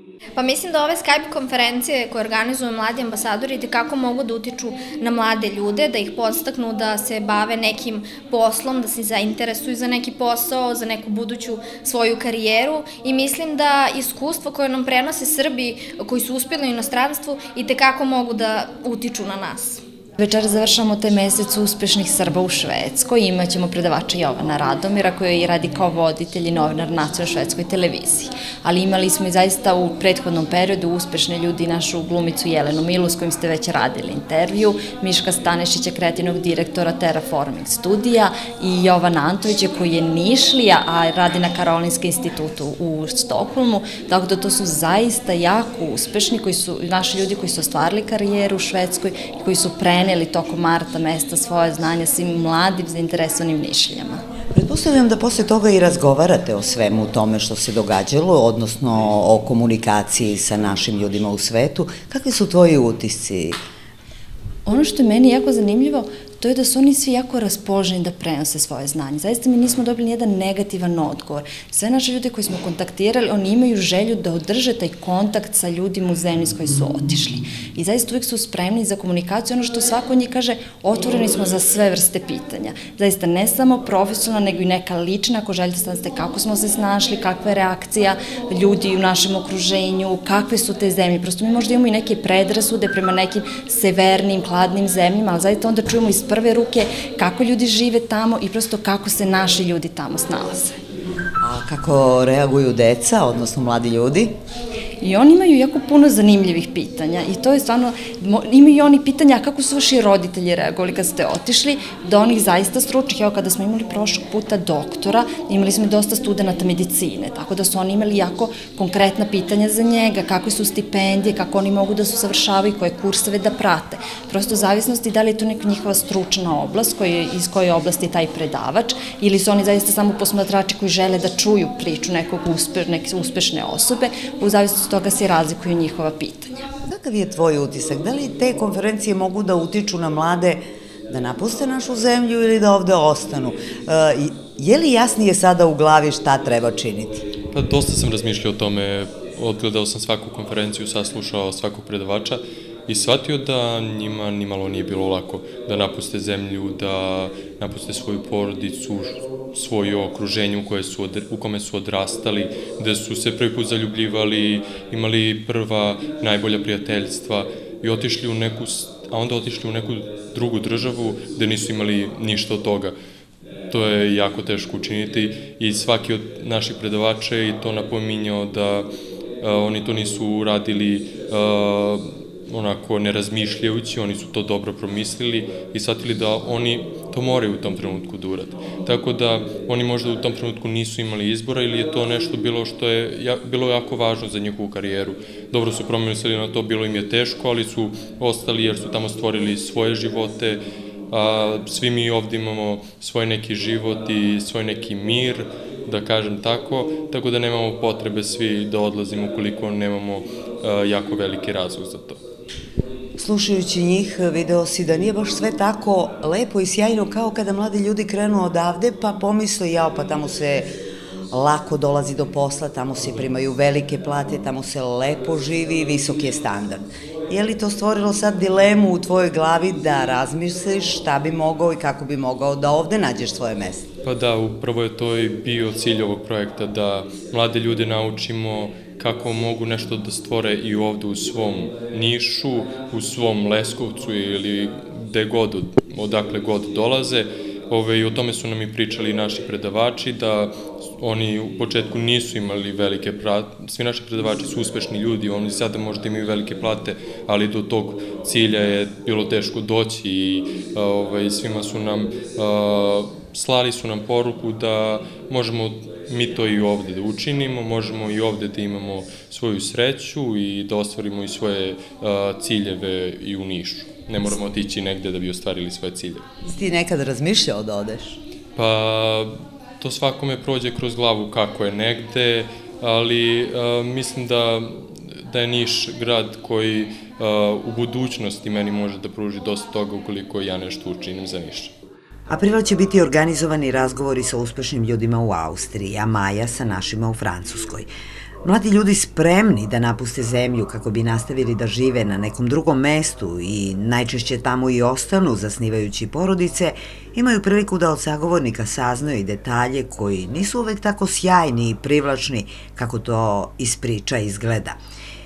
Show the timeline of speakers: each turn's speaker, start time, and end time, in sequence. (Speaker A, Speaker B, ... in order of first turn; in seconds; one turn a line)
Speaker A: 0.3-19.8
Speaker B: 20.2-54.2
Speaker C: 54.5-63.6
Speaker B: 64.7-100.8
Speaker C: 101.4-104.3
Speaker B: 105.0-136.7
Speaker C: 136.9-147.2
Speaker D: 147.5-172.9
Speaker D: 173.7-178.9
Speaker D: 179.4-200.6
Speaker D: 201.1-212.2
Speaker C: 213.2-220.7
Speaker C: 221.3-233.9
Speaker D: 234.0-276.2
Speaker C: 276.4-278.2
Speaker D: 278.6-291.7
Speaker C: 292.3-297.9
Speaker C: 298.4-314.8